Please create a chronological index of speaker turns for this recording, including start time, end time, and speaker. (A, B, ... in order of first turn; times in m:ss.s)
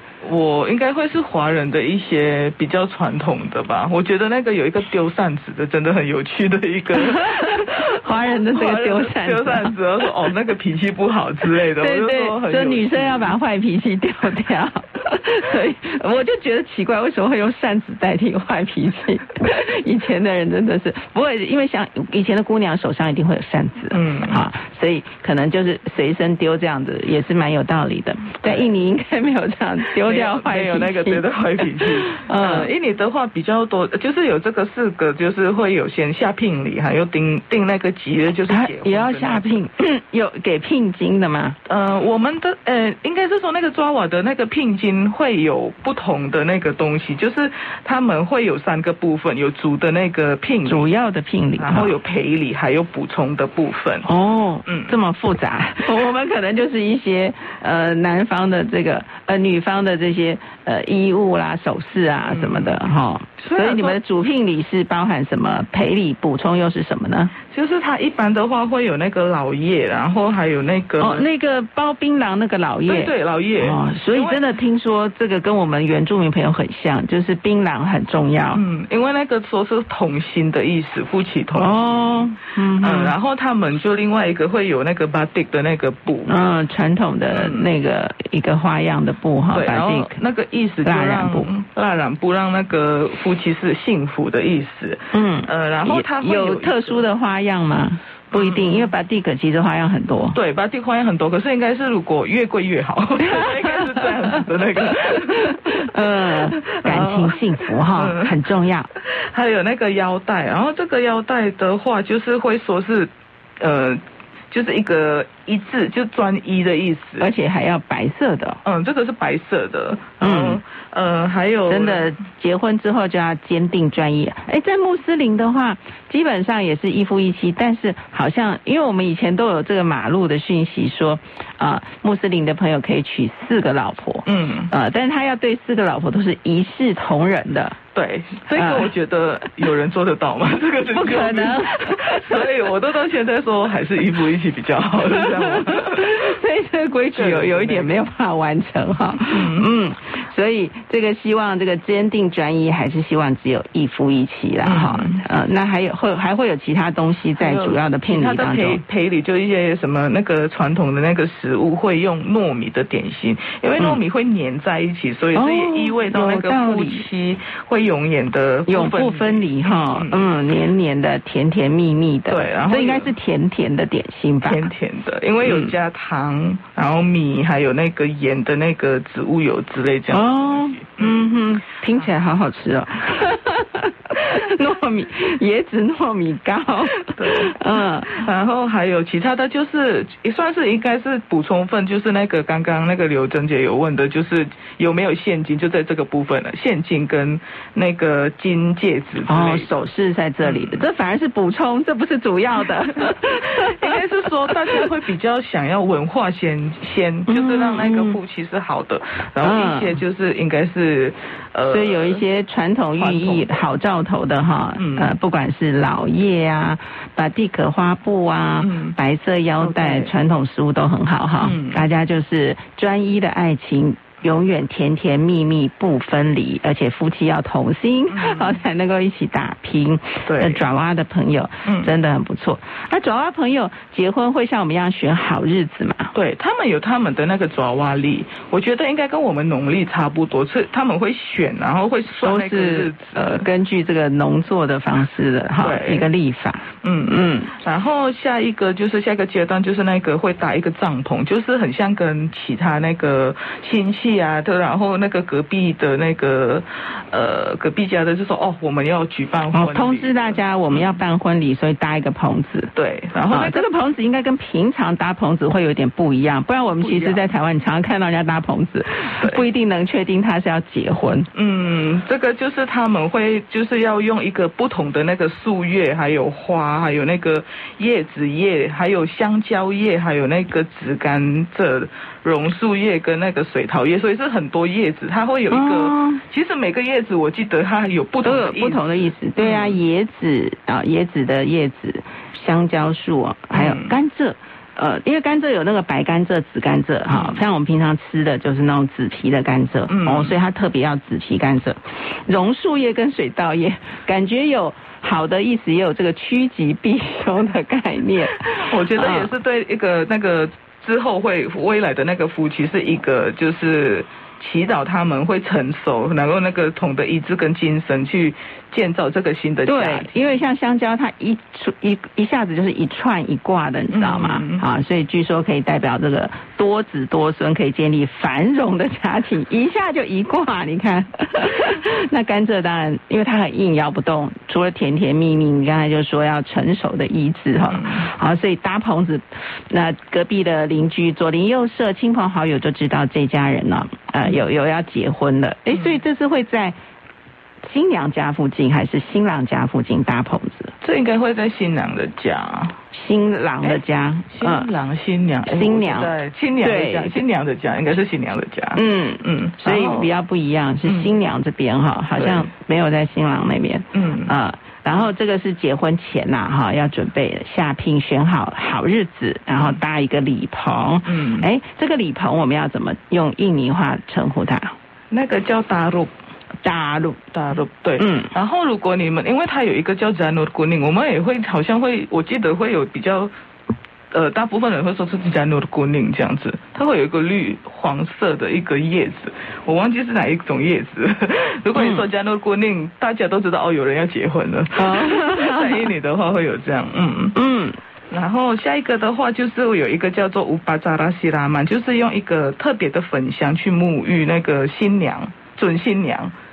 0:00.2-0:13.3 A
0:07.0-0:10.1 B
0:11.8-0:32.7 B
0:23.9-0:24.4 A
0:28.4-0:28.7 A
0:30.0-0:39.6 A
0:38.5-0:41.6 B
0:41.6-0:50.9 A
0:50.6-0:51.9 B
0:51.6-0:54.1 A
0:54.0-1:07.3 B
0:54.6-0:54.9 A
1:02.3-1:02.8 A
1:03.4-1:04.0 A
1:07.5-1:11.3 A
1:11.0-1:18.6 B
1:12.9-1:14.4 A
1:18.5-1:22.1 A
1:21.5-1:23.1 B
1:22.8-1:26.3 A
1:26.3-1:30.2 B
1:27.3-1:27.7 A
1:29.5-1:37.1 A
1:30.8-1:31.5 B
1:35.1-1:40.4 B
1:38.3-1:38.9 A
1:40.3-1:48.4 A
1:43.2-1:44.1 B
1:45.0-1:48.9 B
1:49.0-1:57.3 A
1:57.2-1:58.6 B
1:58.6-2:02.1 A
2:00.2-2:00.6 B
2:01.7-2:17.8 B
2:14.2-2:14.7 A
2:17.9-2:26.4 A
2:18.5-2:18.9 B
2:20.9-2:22.5 B
2:25.0-2:38.8 B
2:27.1-2:27.9 A
2:29.2-2:29.7 A
2:34.6-2:35.2 A
2:37.4-2:50.3 A
2:45.3-2:47.0 B
2:48.7-2:54.6 B
2:52.3-2:53.1 A
2:54.4-3:01.1 A
2:55.4-2:55.7 B
3:00.1-3:08.2 B
3:07.0-3:19.8 A
3:19.2-3:24.8 B
3:20.4-3:20.8 A
3:23.0-3:32.2 A
3:27.3-3:28.2 B
3:29.4-3:30.0 B
3:31.7-3:56.1 B
3:33.0-3:33.6 A
3:34.8-3:35.1 A
3:38.6-3:39.0 A
3:39.6-3:40.1 A
3:41.4-3:41.8 A
3:48.1-3:48.6 A
3:50.3-3:50.6 A
3:51.6-3:51.9 A
3:56.1-4:03.5 A
4:02.2-4:07.5 B
4:05.6-4:06.1 A
4:06.8-4:20.9 A
4:19.5-4:22.7 B
4:22.7-4:23.7 A
4:23.3-4:31.3 B
4:26.8-4:27.2 A
4:29.0-4:29.4 A
4:31.3-4:49.8 A
4:45.5-4:46.2 B
4:48.2-5:09.3 B
4:53.5-4:54.0 A
4:57.1-4:57.4 A
4:59.9-5:00.4 A
5:08.3-5:20.2 A
5:19.6-5:46.7 B
5:23.9-5:24.6 A
5:37.6-5:38.1 A
5:45.7-5:46.0 A
5:47.6-5:50.7 B
5:50.8-5:52.8 A
5:52.9-5:54.7 B
5:53.6-6:00.1 A
5:55.5-5:57.2 B
5:58.7-6:14.7 B
6:00.8-6:01.1 A
6:02.2-6:02.5 A
6:03.9-6:04.3 A
6:11.0-6:11.4 A
6:15.1-6:16.1 A
6:16.6-6:17.2 B
6:17.3-6:23.3 A
6:18.0-6:18.3 B
6:24.1-6:37.4 A
6:31.8-6:32.0 B
6:34.8-6:35.9 B
6:37.3-6:37.8 B
6:38.1-6:46.3 A